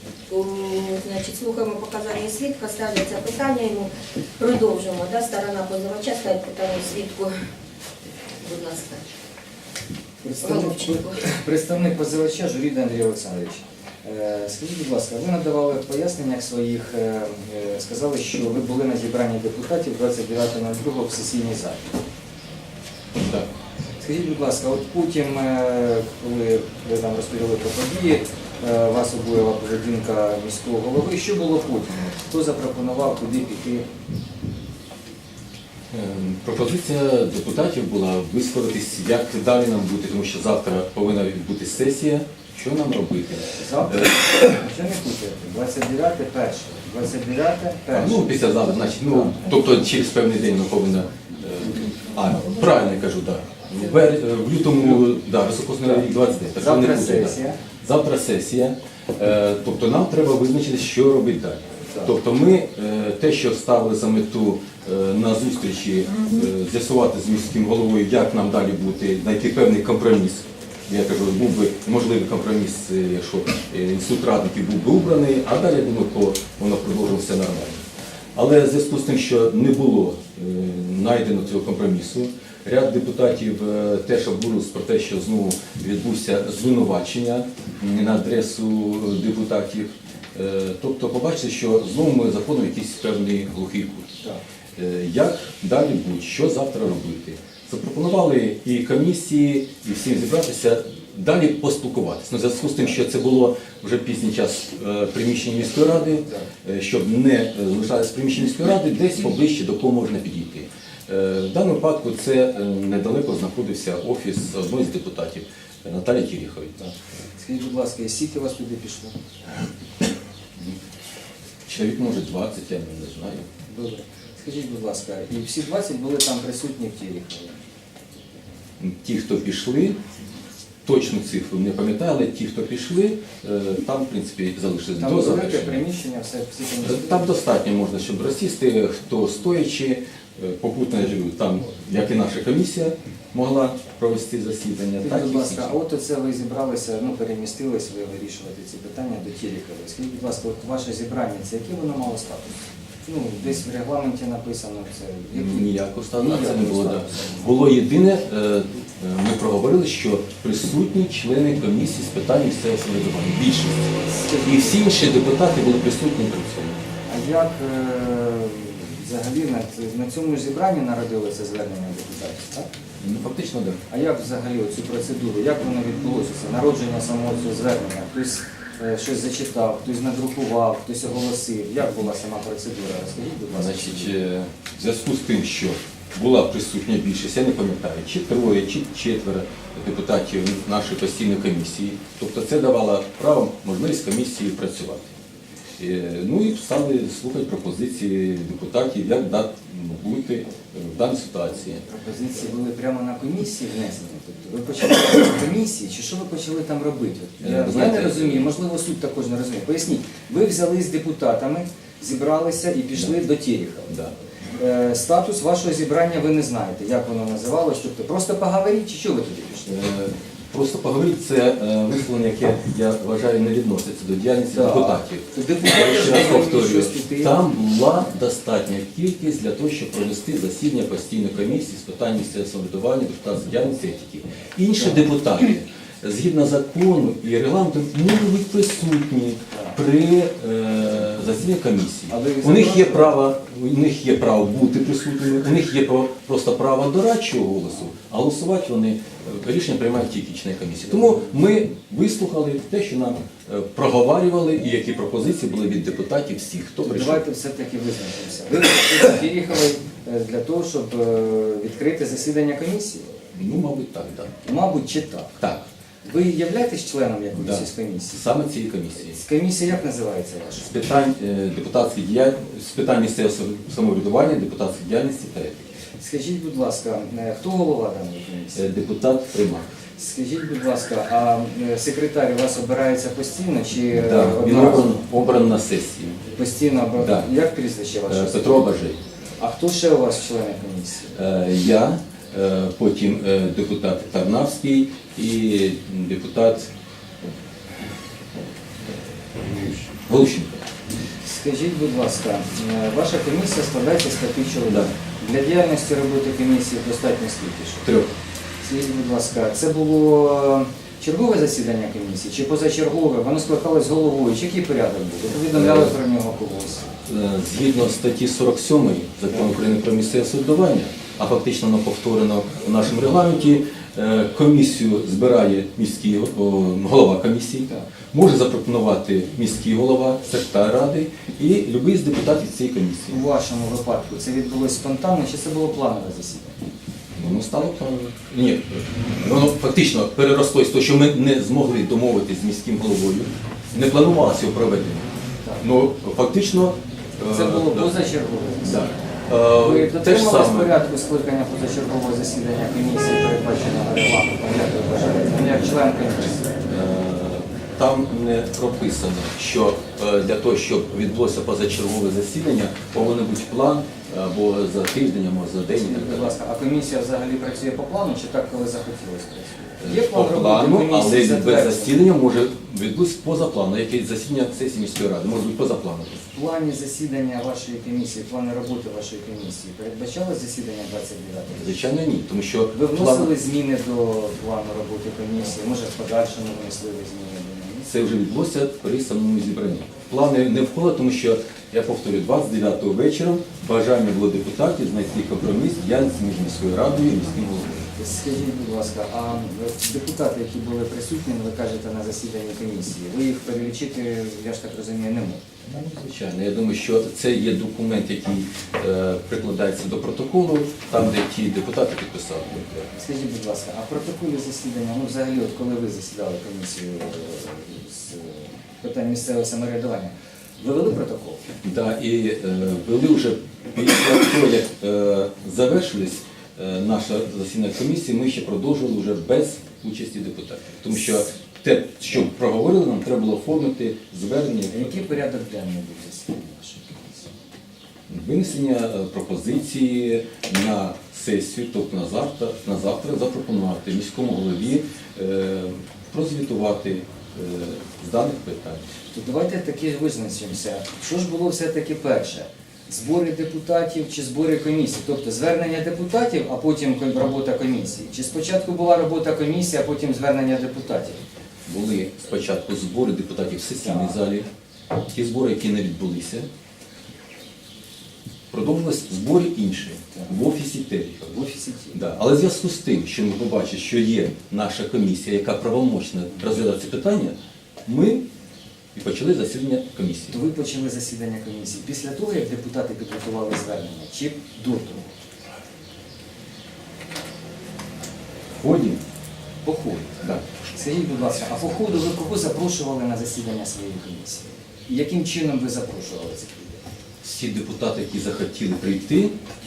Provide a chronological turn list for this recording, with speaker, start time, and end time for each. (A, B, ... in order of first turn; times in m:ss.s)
0:00.3-0:07.3 A
0:08.4-0:09.1 A
0:10.2-0:22.0 B
0:10.4-0:11.2 A
0:23.2-0:23.5 C
0:24.0-0:33.9 B
0:35.9-0:44.2 C
0:43.6-0:49.5 B
0:47.9-1:34.1 C
0:56.6-0:57.6 B
1:34.8-1:56.8 C
1:46.2-1:46.5 B
1:56.8-1:59.2 B
2:01.7-2:03.5 C
2:03.7-2:07.6 B
2:08.8-2:10.0 C
2:10.8-2:15.8 C
2:15.0-2:17.3 B
2:16.8-2:25.8 C
2:25.0-2:37.4 B
2:35.3-2:46.8 C
2:44.0-2:44.9 B
2:47.1-2:52.7 B
2:53.0-2:53.8 C
2:53.9-3:04.1 B
3:03.5-3:15.1 C
3:15.8-3:21.8 C
3:21.9-3:33.9 B
3:27.4-3:28.5 C
3:33.9-3:34.1 C
3:34.6-3:39.7 B
3:39.7-4:17.2 C
3:44.5-3:47.4 B
3:54.8-3:55.0 B
3:59.5-3:59.8 B
4:02.1-4:03.2 B
4:16.8-4:23.2 B
4:23.3-4:24.4 C
4:24.4-4:25.4 B
4:25.4-4:25.7 C
4:26.0-4:28.2 B
4:27.3-4:29.2 C
4:29.0-4:30.7 B
4:30.6-4:35.7 C
4:36.0-4:38.7 B
4:38.6-4:39.7 C
4:40.0-4:45.0 B
4:43.9-4:46.2 C
4:46.3-4:48.6 B
4:47.0-4:47.3 C
4:48.1-4:49.0 C
4:49.4-4:51.2 B
4:51.2-4:56.7 C
4:59.7-5:00.7 C
5:01.2-5:07.8 B
5:07.8-5:08.1 C
5:08.6-5:16.9 B
5:15.4-5:16.0 C
5:17.1-5:33.2 C
5:33.1-5:36.6 B
5:37.2-5:45.1 C
5:45.6-5:47.9 C
5:47.2-5:48.8 B
5:48.6-5:50.8 C
5:49.6-5:56.5 B
5:56.7-6:06.4 C
6:05.7-6:12.0 B
6:09.8-6:16.2 C
6:16.3-6:21.8 B
6:21.6-6:23.4 C
6:22.7-6:27.9 B
6:27.8-6:37.9 C
6:37.9-6:45.4 B
6:45.7-6:52.9 C
6:52.9-7:01.5 B
7:01.6-7:15.0 C
7:14.7-7:17.3 B
7:18.1-7:28.8 C
7:29.1-7:41.2 B
7:41.7-7:44.5 C
7:43.8-7:44.2 B
7:45.1-7:46.5 C
7:48.5-7:58.3 C
7:50.1-7:50.4 B
7:51.3-7:52.0 B
7:58.9-8:00.4 C
8:00.3-8:05.2 B
8:08.5-8:09.0 C
8:09.6-8:10.2 B
8:10.7-8:16.8 B
8:17.2-8:19.4 C